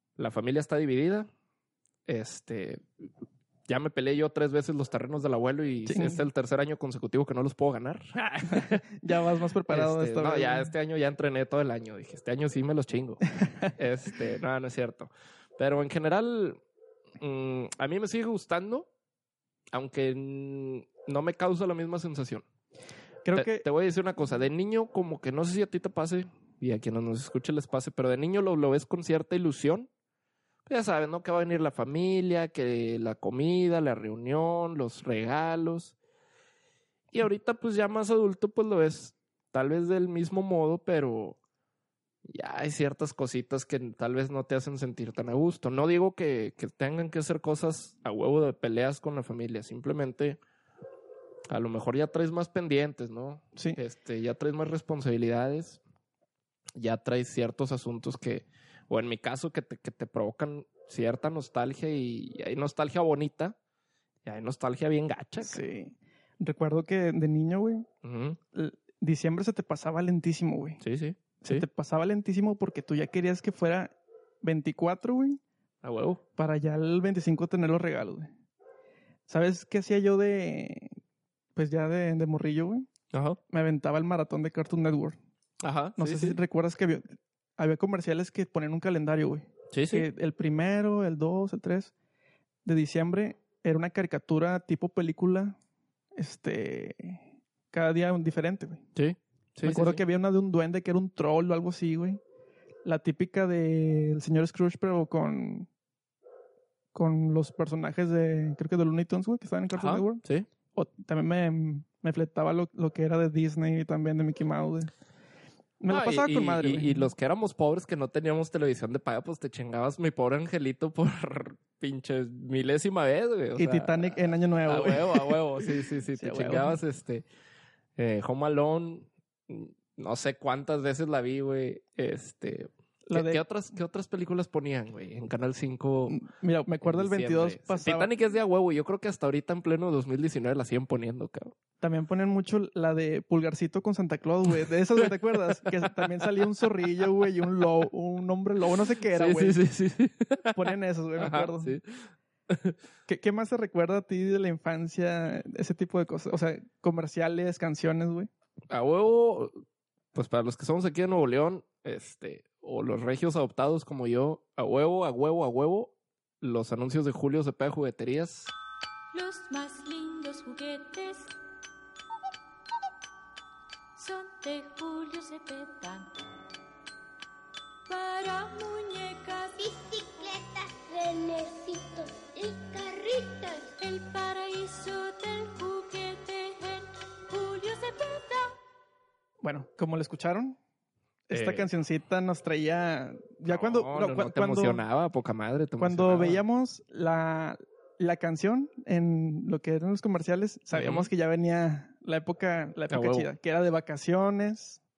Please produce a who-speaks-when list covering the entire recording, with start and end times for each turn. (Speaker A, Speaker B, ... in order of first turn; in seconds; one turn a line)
Speaker A: 0.2-1.3
Speaker A: 2.1-3.1
Speaker A: 3.7-8.8
Speaker B: 5.8-6.2
Speaker B: 8.5-10.7
Speaker A: 9.7-16.6
Speaker A: 17.2-18.9
Speaker A: 19.7-22.4
Speaker B: 23.2-23.7
Speaker A: 23.3-29.9
Speaker A: 30.7-35.9
Speaker A: 37.1-41.4
Speaker A: 42.2-50.4
Speaker A: 51.5-55.8
Speaker A: 56.8-63.6
Speaker A: 64.2-65.6
Speaker B: 65.4-67.9
Speaker A: 68.0-68.4
Speaker B: 68.5-70.8
Speaker A: 70.8-71.7
Speaker B: 71.4-75.4
Speaker A: 75.8-76.2
Speaker B: 76.4-78.3
Speaker B: 79.3-81.0
Speaker B: 81.6-82.9
Speaker A: 83.1-83.4
Speaker B: 83.5-85.2
Speaker A: 85.6-86.4
Speaker B: 86.0-91.9
Speaker A: 89.7-90.1
Speaker B: 92.7-95.6
Speaker B: 96.2-98.8
Speaker A: 98.9-100.0
Speaker B: 99.6-102.2
Speaker B: 102.8-105.7
Speaker B: 106.9-110.2
Speaker A: 109.7-110.5
Speaker B: 110.7-114.9
Speaker B: 115.8-117.1
Speaker A: 115.9-127.2
Speaker B: 123.6-125.4
Speaker B: 126.2-126.8
Speaker A: 128.0-136.2
Speaker B: 133.1-133.4
Speaker B: 136.1-138.1
Speaker A: 136.8-141.6
Speaker B: 141.8-149.6
Speaker A: 145.5-146.1
Speaker A: 149.1-150.6
Speaker B: 150.5-151.8
Speaker A: 151.2-152.8
Speaker B: 153.1-158.3
Speaker A: 158.7-159.5
Speaker A: 160.1-168.5
Speaker C: 169.1-171.3
Speaker C: 173.9-176.1
Speaker C: 177.8-179.6
Speaker D: 179.6-183.7
Speaker C: 183.8-188.6
Speaker B: 189.4-190.6
Speaker B: 191.3-194.8
Speaker A: 191.3-191.7
Speaker A: 193.5-196.4
Speaker B: 195.8-204.8
Speaker A: 200.7-201.1
Speaker A: 202.9-203.3